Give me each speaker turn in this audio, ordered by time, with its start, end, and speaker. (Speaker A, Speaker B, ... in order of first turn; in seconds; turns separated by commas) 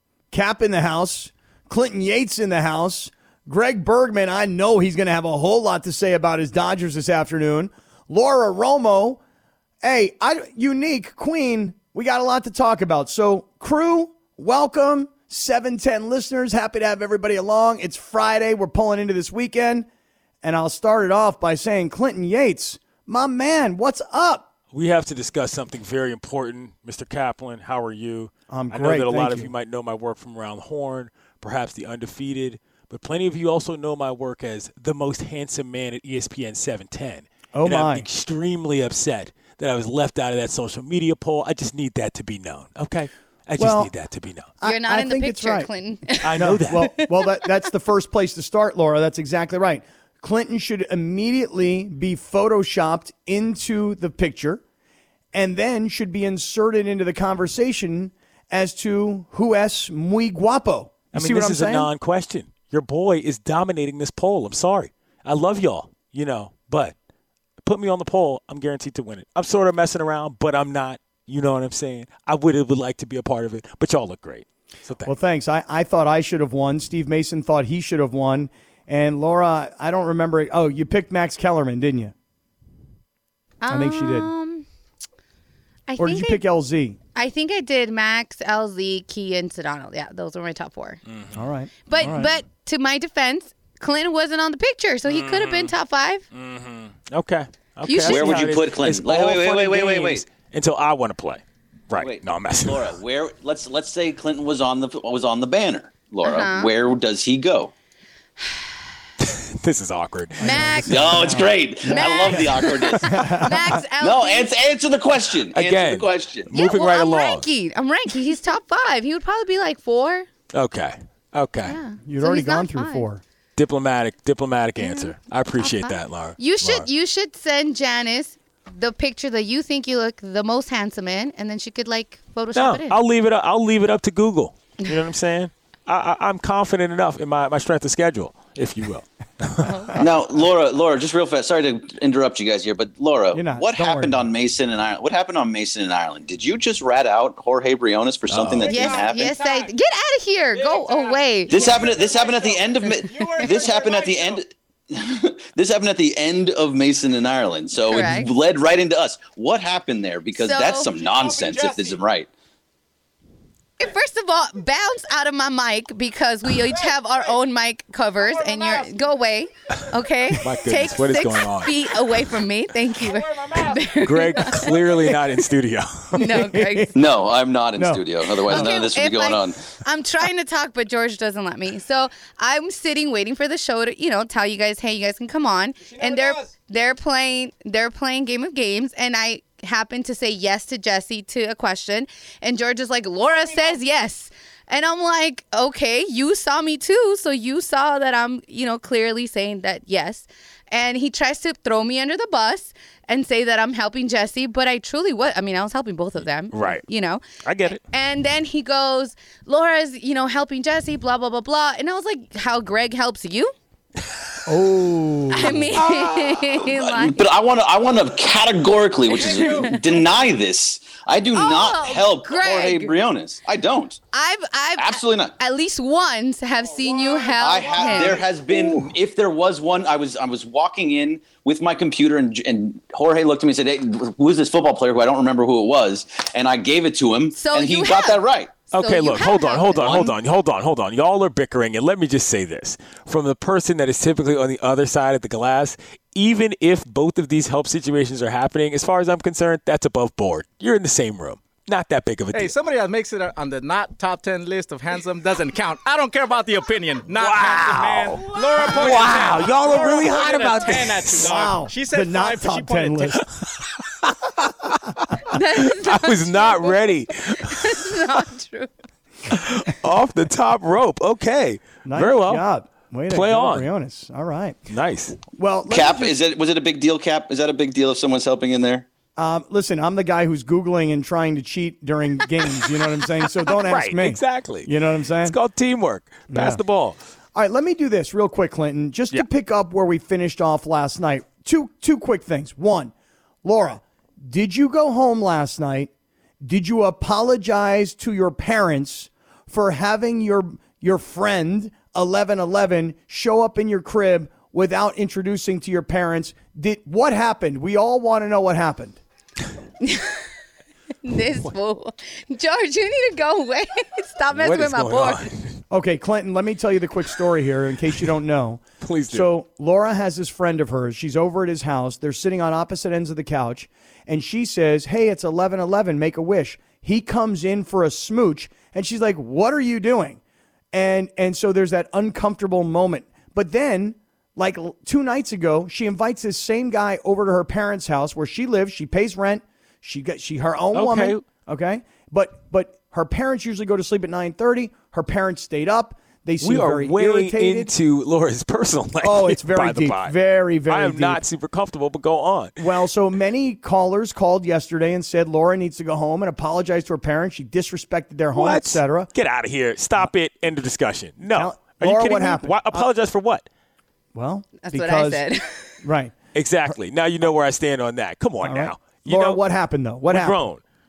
Speaker A: 0.3-9.2, Speaker A: 9.8-19.9, Speaker A: 20.4-24.4, Speaker B: 24.7-44.5, Speaker A: 28.5-29.5, Speaker A: 37.5-38.0, Speaker A: 43.6-43.9, Speaker A: 44.6-45.7, Speaker C: 44.6-47.1, Speaker B: 46.2-46.9, Speaker A: 46.3-54.6, Speaker A: 55.3-61.9, Speaker B: 61.1-66.9, Speaker B: 67.6-75.1, Speaker A: 75.0-82.1, Speaker C: 83.6-84.7, Speaker A: 83.7-84.3, Speaker C: 85.9-86.4, Speaker A: 86.0-87.0, Speaker C: 87.2-91.0, Speaker B: 91.1-91.4, Speaker A: 91.3-92.3, Speaker C: 91.9-96.2, Speaker B: 95.1-95.7, Speaker B: 96.3-102.9, Speaker C: 97.8-98.3, Speaker D: 98.0-100.2, Speaker D: 102.0-107.7, Speaker C: 106.2-106.7, Speaker C: 108.4-108.7, Speaker B: 109.2-111.1, Speaker C: 110.4-114.5, Speaker A: 110.5-112.4, Speaker D: 110.9-113.4, Speaker A: 113.1-113.6, Speaker D: 114.0-116.5, Speaker B: 115.5-117.4, Speaker C: 116.5-120.3, Speaker B: 120.5-121.8, Speaker C: 121.7-123.1, Speaker A: 122.0-123.2, Speaker B: 123.6-126.9, Speaker C: 124.8-133.0, Speaker B: 132.5-140.0, Speaker C: 139.6-140.0, Speaker D: 140.0-149.4, Speaker A: 143.3-144.2, Speaker B: 148.3-148.8, Speaker C: 148.7-151.9, Speaker D: 151.5-162.3, Speaker C: 153.2-153.7, Speaker C: 157.8-158.3, Speaker C: 160.4-160.9, Speaker E: 161.5-161.8, Speaker C: 163.8-175.1, Speaker B: 170.4-172.0, Speaker B: 174.0-176.4, Speaker C: 176.2-177.0, Speaker A: 176.2-176.9, Speaker D: 176.9-179.6, Speaker A: 177.8-178.0, Speaker C: 178.4-213.5, Speaker B: 206.5-206.8, Speaker B: 207.4-207.8, Speaker A: 214.5-215.6, Speaker C: 215.3-217.2, Speaker B: 215.7-216.4, Speaker D: 216.6-224.0, Speaker C: 219.2-219.8, Speaker C: 221.3-222.9, Speaker C: 224.1-228.2, Speaker D: 224.8-225.3, Speaker D: 227.4-238.5, Speaker C: 237.4-238.2, Speaker C: 238.7-240.2, Speaker B: 238.7-252.5, Speaker D: 239.8-240.1, Speaker E: 252.3-263.2, Speaker B: 257.1-261.3, Speaker A: 261.2-263.2, Speaker B: 263.4-268.2, Speaker C: 265.3-268.7, Speaker B: 269.3-272.4, Speaker A: 271.8-274.6, Speaker B: 273.1-273.7, Speaker B: 274.7-275.2, Speaker A: 275.3-276.1, Speaker D: 275.7-278.9, Speaker A: 279.2-285.4, Speaker B: 283.5-284.7, Speaker B: 285.2-287.0, Speaker A: 286.3-286.6, Speaker A: 287.3-292.9, Speaker A: 293.4-295.9, Speaker A: 296.4-309.0, Speaker C: 309.8-310.2, Speaker C: 311.0-315.3, Speaker B: 314.3-315.6, Speaker A: 315.7-330.2, Speaker B: 318.8-319.2, Speaker A: 330.7-347.7, Speaker B: 340.7-341.2, Speaker B: 346.4-350.1, Speaker A: 349.0-351.2, Speaker B: 350.7-352.6, Speaker A: 352.6-359.1, Speaker B: 358.3-363.4, Speaker A: 361.3-362.9, Speaker A: 364.1-365.2, Speaker C: 364.6-365.7, Speaker A: 365.8-366.1, Speaker B: 366.3-369.4, Speaker A: 368.4-370.4, Speaker B: 370.1-370.6